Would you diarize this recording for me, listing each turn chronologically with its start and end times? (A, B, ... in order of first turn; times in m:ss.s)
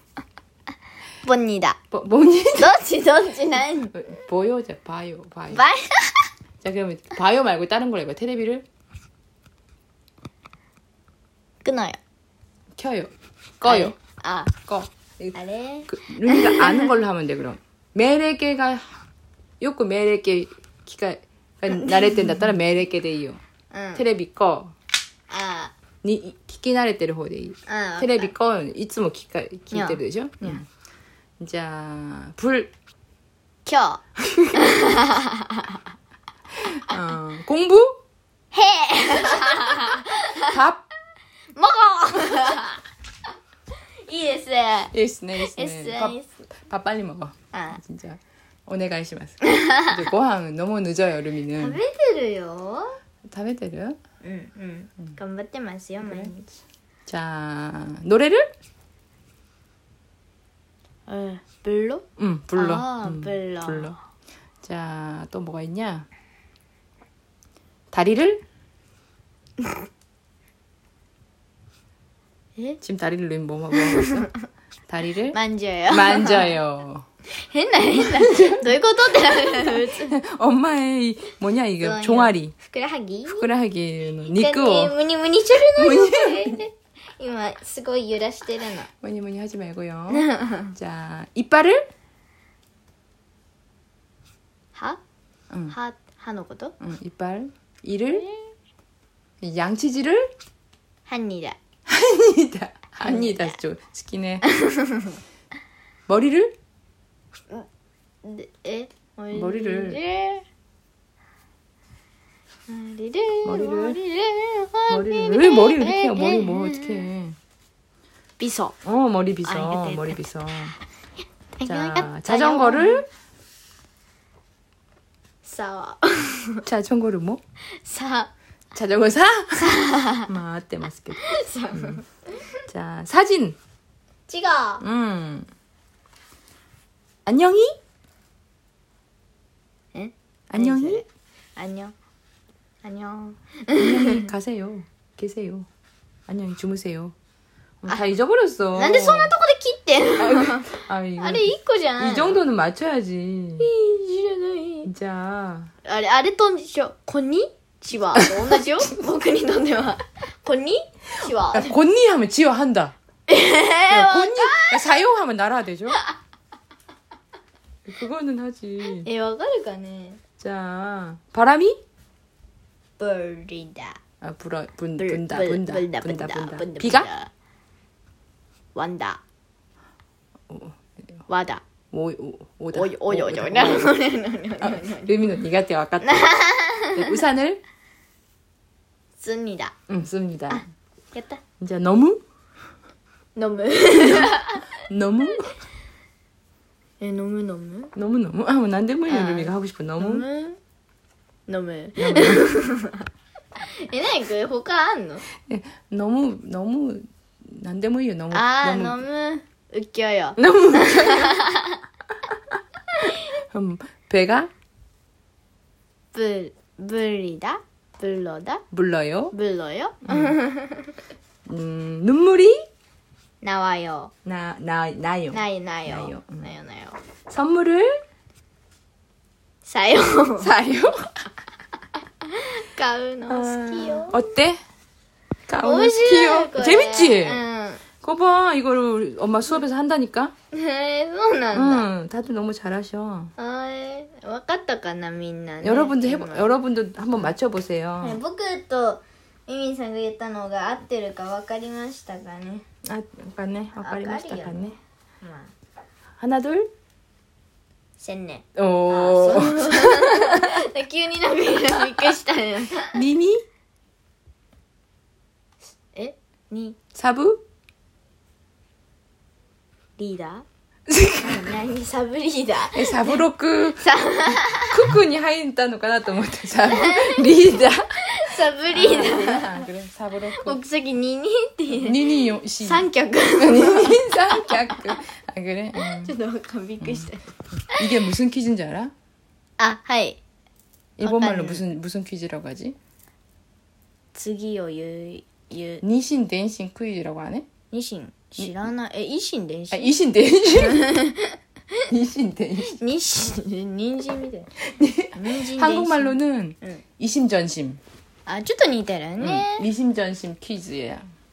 0:01.2-0:01.8 A
0:01.9-0:02.7 B
0:02.6-0:03.9 A
0:03.9-0:05.7 B
0:05.5-0:06.3 A
0:06.6-0:08.6 B
0:11.6-0:12.0 A
0:12.7-0:14.0 B
0:13.6-0:14.5 A
0:14.7-0:19.0 B
0:15.3-0:16.9 A
0:19.6-0:23.4 B
0:21.7-0:22.3 A
0:23.7-0:24.0 A
0:24.0-0:24.7 B
0:25.3-0:25.7 A
0:26.0-0:30.7 B
0:27.7-0:28.3 A
0:29.7-0:30.6 A
0:31.4-0:32.7 B
0:33.6-0:34.0 A
0:34.2-0:34.6 B
0:34.6-0:35.8 A
0:36.6-0:38.0 B
0:38.5-0:40.6 A
0:40.4-0:40.8 B
0:41.5-0:42.8 A
0:44.0-0:46.3 A
0:44.9-0:51.8 B
0:47.5-0:47.8 A
0:49.4-0:49.9 A
0:51.6-0:52.9 A
0:53.3-0:54.0 B
0:54.2-0:56.4 A
0:56.0-0:56.3 B
0:57.1-0:58.5 B
1:01.1-1:02.0 A
1:02.2-1:04.0 B
1:02.5-1:03.9 A
1:04.6-1:06.1 B
1:07.9-1:08.4 B
1:12.8-1:14.3 B
1:14.9-1:17.0 B
1:15.3-1:16.5 A
1:17.3-1:20.2 A
1:18.0-1:18.7 B
1:19.3-1:22.5 B
1:21.8-1:23.4 A
1:23.3-1:25.0 B
1:24.3-1:28.9 A
1:25.5-1:26.6 B
1:29.0-1:31.8 B
1:30.1-1:30.7 A
1:34.7-1:35.0 A
1:35.5-1:35.8 B
1:35.7-1:36.7 A
1:36.8-1:38.2 B
1:38.1-1:38.5 A
1:39.4-1:40.2 B
1:41.1-1:41.6 A
1:41.9-1:44.4 B
1:43.0-1:43.5 A
1:44.5-1:45.2 A
1:46.1-1:46.5 B
1:48.2-1:50.4 A
1:49.3-1:50.0 B
1:52.7-1:57.0 A
1:53.4-1:54.0 B
1:54.9-1:57.4 B
1:58.4-1:58.7 A
1:58.8-2:00.7 B
1:59.4-2:00.2 A
2:01.6-2:03.0 A
2:01.6-2:03.0 B
2:05.4-2:06.6 A
2:06.6-2:07.4 B
2:07.8-2:08.3 A
2:08.7-2:12.0 B
2:09.6-2:10.3 A
2:11.2-2:12.6 A
2:12.7-2:13.6 B
2:14.3-2:14.8 A
2:14.8-2:15.5 B
2:17.2-2:17.7 B
2:19.9-2:21.0 A
2:20.5-2:21.0 B
2:21.6-2:21.9 A
2:22.8-2:24.3 A
2:23.7-2:25.7 B
2:26.3-2:27.1 B
2:27.8-2:29.3 B
2:28.8-2:32.4 A
2:30.2-2:33.7 B
2:33.6-2:34.9 A
2:34.8-2:35.7 B
2:35.8-2:41.7 A
2:41.5-2:42.9 B
2:43.3-2:44.9 A
2:43.9-2:46.0 B
2:47.8-2:49.1 B
2:49.0-2:50.2 A
2:50.4-2:51.8 B
2:53.0-2:54.0 A
2:54.2-2:57.1 B
2:55.0-2:57.3 A
2:58.7-2:59.2 A
3:00.5-3:01.2 B
3:01.3-3:01.6 A
3:01.9-3:04.0 B
3:02.7-3:05.1 A
3:04.6-3:06.3 B
3:06.0-3:07.1 A
3:06.9-3:07.6 B
3:09.2-3:09.7 A
3:09.9-3:10.6 B
3:10.5-3:11.4 A
3:11.6-3:12.2 B
3:13.4-3:14.8 A
3:14.1-3:14.3 B
3:14.9-3:15.5 B
3:17.0-3:17.9 A
3:17.9-3:20.2 B
3:19.1-3:20.6 A
3:21.5-3:23.0 A
3:22.0-3:22.5 B
3:23.8-3:25.2 A
3:25.4-3:29.0 B
3:28.3-3:31.8 A
3:30.4-3:31.4 B
3:32.3-3:34.5 B
3:36.1-3:38.6 A
3:38.7-3:39.3 B
3:39.3-3:40.9 A
3:40.0-3:40.4 B
3:41.5-3:42.6 B
3:43.4-3:44.1 A
3:44.2-3:46.5 B
3:45.3-3:47.0 A
3:47.3-3:47.9 B
3:49.6-3:50.5 A
3:50.4-3:51.1 B
3:52.2-3:54.2 A
3:53.3-3:54.6 B
3:55.5-3:57.4 B
3:55.6-3:57.8 A
3:58.0-4:00.3 B
4:00.5-4:01.9 A
4:01.5-4:03.3 B
4:03.4-4:06.5 A
4:05.6-4:08.2 B
4:08.0-4:12.6 A
4:12.8-4:14.8 B
4:13.8-4:15.5 A
4:16.2-4:16.7 B
4:18.0-4:23.0 A
4:18.6-4:20.5 B
4:22.9-4:23.4 B
4:25.9-4:26.8 A
4:26.9-4:27.4 B
4:30.0-4:30.4 A
4:30.9-4:31.5 B
4:31.2-4:33.2 A
4:32.7-4:40.6 B
4:33.8-4:34.7 A
4:36.7-4:37.5 A
4:38.0-4:39.7 A
4:40.3-4:45.0 A
4:41.7-4:42.8 B
4:43.4-4:46.1 B
4:45.8-4:47.9 A
4:46.8-4:47.1 B
4:47.7-4:48.9 B
4:49.6-4:50.2 A
4:51.0-4:52.8 B
4:51.0-4:51.6 A
4:54.1-4:55.8 A
4:55.8-4:57.5 B
4:57.7-4:59.9 A
4:58.4-4:58.7 B
4:59.7-5:01.0 B
5:00.5-5:01.4 A
5:01.9-5:02.8 B
5:02.7-5:04.5 A
5:04.7-5:07.8 B
5:05.2-5:06.8 A
5:08.2-5:09.7 A
5:09.2-5:11.0 B